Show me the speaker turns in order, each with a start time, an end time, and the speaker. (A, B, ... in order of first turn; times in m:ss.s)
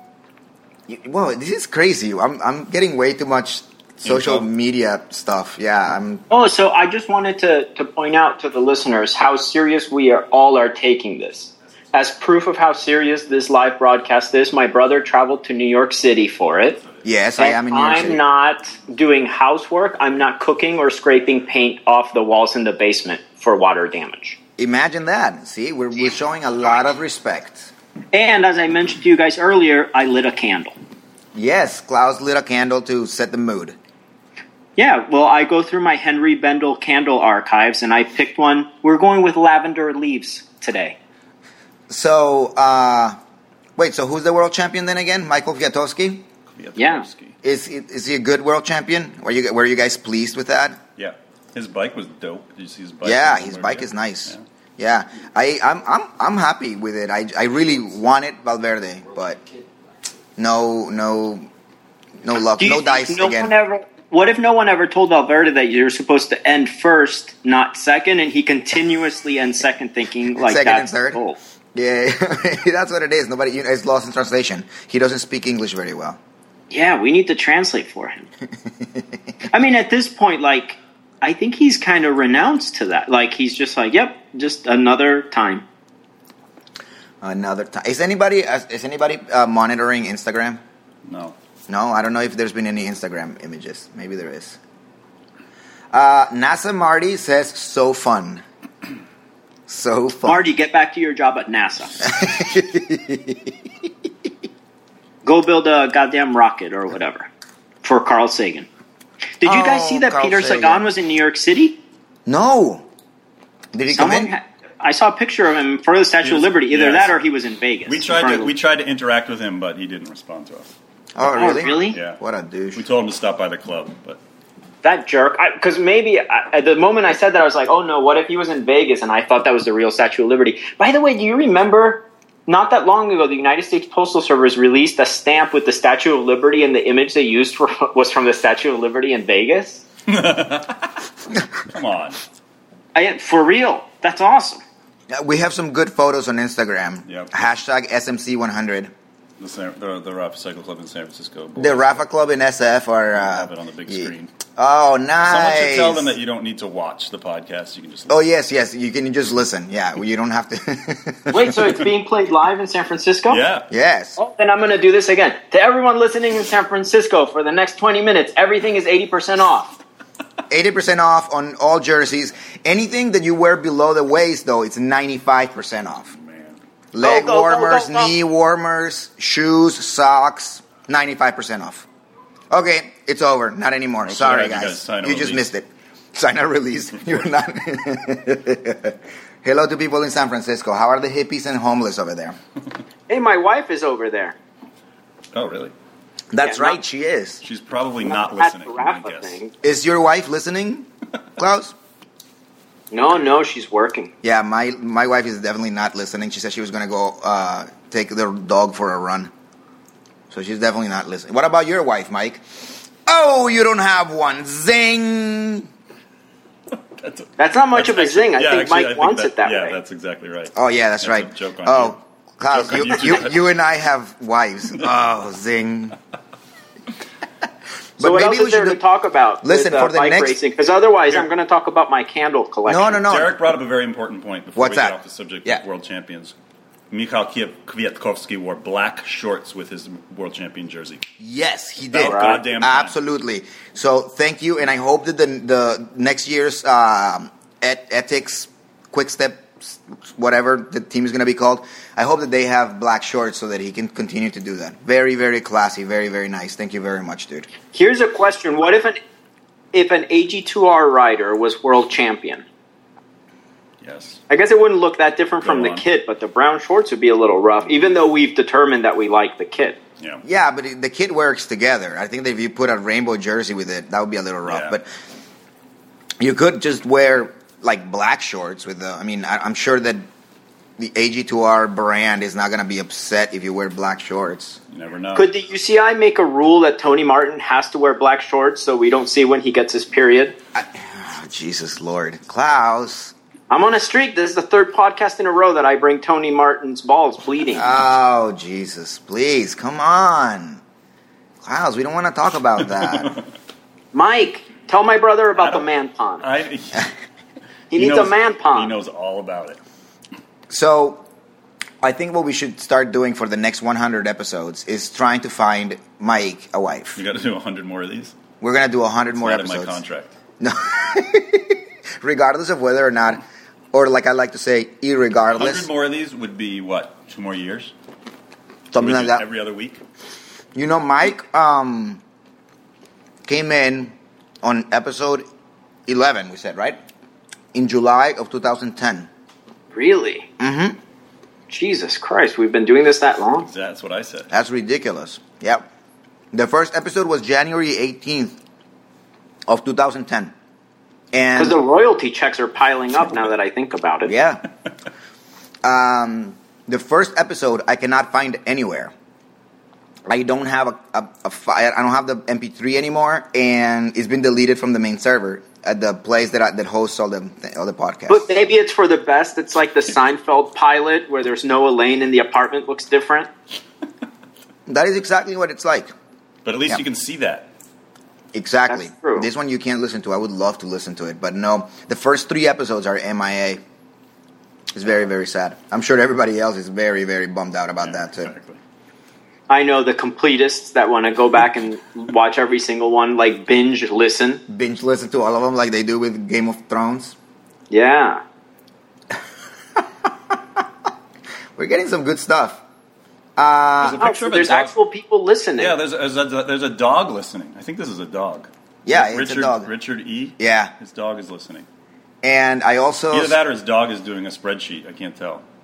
0:00.9-0:06.2 A
0:04.0-0:04.5 B
0:06.3-0:16.8 C
0:17.0-0:18.2 A
0:17.4-0:24.4 C
0:24.6-0:27.7 A
0:28.1-0:30.7 C
0:31.3-0:33.7 A
0:34.8-0:41.0 C
0:41.9-0:43.2 A
0:43.8-0:46.2 A
0:46.5-0:47.3 B
0:46.8-0:47.0 C
0:47.4-0:50.8 A
0:51.0-0:54.4 B
0:53.0-0:59.4 A
1:00.4-1:01.5 A
1:02.2-1:03.5 A
1:02.6-1:11.4 C
1:10.4-1:11.2 A
1:11.7-1:16.2 A
1:16.7-1:18.3 C
1:19.5-1:25.6 C
1:27.2-1:30.6 A
1:31.0-1:31.4 B
1:31.7-1:34.6 A
1:35.9-1:38.4 A
1:39.7-1:40.5 A
1:40.2-1:42.1 C
1:42.0-1:43.5 A
1:45.2-1:47.3 C
1:47.8-1:48.7 C
1:49.4-1:51.8 C
1:49.4-1:50.9 A
1:52.2-1:52.8 A
1:53.7-1:54.3 A
1:53.9-1:58.5 C
1:56.2-1:57.1 B
1:57.8-2:00.7 B
2:01.1-2:02.8 A
2:01.3-2:02.2 B
2:01.3-2:02.0 C
2:02.7-2:04.2 B
2:04.8-2:19.8 C
2:20.1-2:21.0 B
2:21.7-2:22.2 B
2:22.9-2:24.6 C
2:25.1-2:28.9 A
2:27.0-2:27.3 B
2:29.4-2:32.0 B
2:31.6-2:36.1 A
2:33.1-2:34.3 B
2:35.2-2:38.3 B
2:38.1-2:41.6 A
2:41.3-2:43.4 C
2:43.3-2:43.7 B
2:43.7-2:44.2 A
2:44.2-2:49.8 C
2:50.5-2:56.1 A
2:56.1-2:56.6 B
2:56.9-3:01.8 A
2:57.0-2:58.1 C
3:02.5-3:12.4 A
3:04.0-3:05.5 B
3:13.1-3:14.4 C
3:15.3-3:15.7 B
3:16.3-3:17.4 A
3:16.4-3:16.8 C
3:17.4-3:19.4 B
3:18.0-3:19.5 C
3:19.6-3:21.7 A
3:22.9-3:24.1 C
3:24.2-3:29.3 A
3:30.3-3:35.7 A
3:36.7-3:42.0 B
3:37.4-3:39.8 C
3:40.5-3:46.0 A
3:42.5-3:43.4 B
3:48.0-3:48.8 A
3:48.0-3:53.0 C
3:49.4-3:50.4 A
3:52.7-3:53.4 A
3:53.0-3:56.3 B
3:54.5-3:55.6 A
3:56.9-4:01.0 B
4:01.2-4:17.5 A
4:01.9-4:02.9 B
4:02.0-4:02.4 C
4:17.7-4:19.0 C
4:19.7-4:22.4 C
4:23.8-4:24.2 B
4:24.3-4:29.8 C
4:25.4-4:25.8 B
4:30.2-4:34.9 A
4:34.4-4:34.8 B
4:36.2-4:40.0 A
4:40.8-4:44.6 A
4:44.7-4:45.3 B
4:45.1-4:50.4 C
4:50.5-4:53.1 A
4:53.5-4:57.7 C
4:57.5-5:00.6 A
5:01.4-5:03.2 A
5:02.6-5:03.2 B
5:03.9-5:06.2 C
5:05.3-5:05.7 B
5:06.2-5:06.9 B
5:07.7-5:08.7 C
5:07.7-5:09.6 B
5:10.5-5:11.0 A
5:11.8-5:17.0 A
5:17.0-5:18.1 B
5:18.4-5:19.8 A
5:19.1-5:20.1 B
5:20.4-5:23.2 A
5:23.7-5:25.7 A
5:25.3-5:27.7 B
5:28.7-5:29.2 A
5:28.8-5:29.8 B
5:30.5-5:32.0 A
5:33.2-5:35.2 A
5:35.9-5:36.8 A
5:37.5-5:39.1 A
5:39.7-5:40.3 C
5:40.4-5:40.8 A
5:41.5-5:43.5 C
5:43.4-5:44.3 B
5:44.3-5:45.6 A
5:46.3-5:48.4 A
5:49.5-5:50.3 A
5:51.1-5:51.6 A
5:51.4-5:54.1 C
5:54.1-5:54.4 A
5:55.6-5:58.9 A
6:00.1-6:08.3 A
6:08.1-6:13.3 C
6:14.7-6:15.9 A
6:16.4-6:17.5 B
6:18.3-6:23.6 A
6:18.7-6:19.3 C
6:24.7-6:28.3 A
6:27.8-6:28.6 B
6:29.5-6:34.4 C
6:34.5-6:37.1 A
6:37.7-6:38.2 C
6:41.6-6:42.6 A
6:43.4-6:44.0 A
6:43.8-6:44.7 B
6:44.0-6:45.8 C
6:45.6-6:51.6 B
6:48.8-6:49.7 A
6:50.4-6:50.7 A
6:52.2-6:53.4 A
6:53.1-6:55.4 B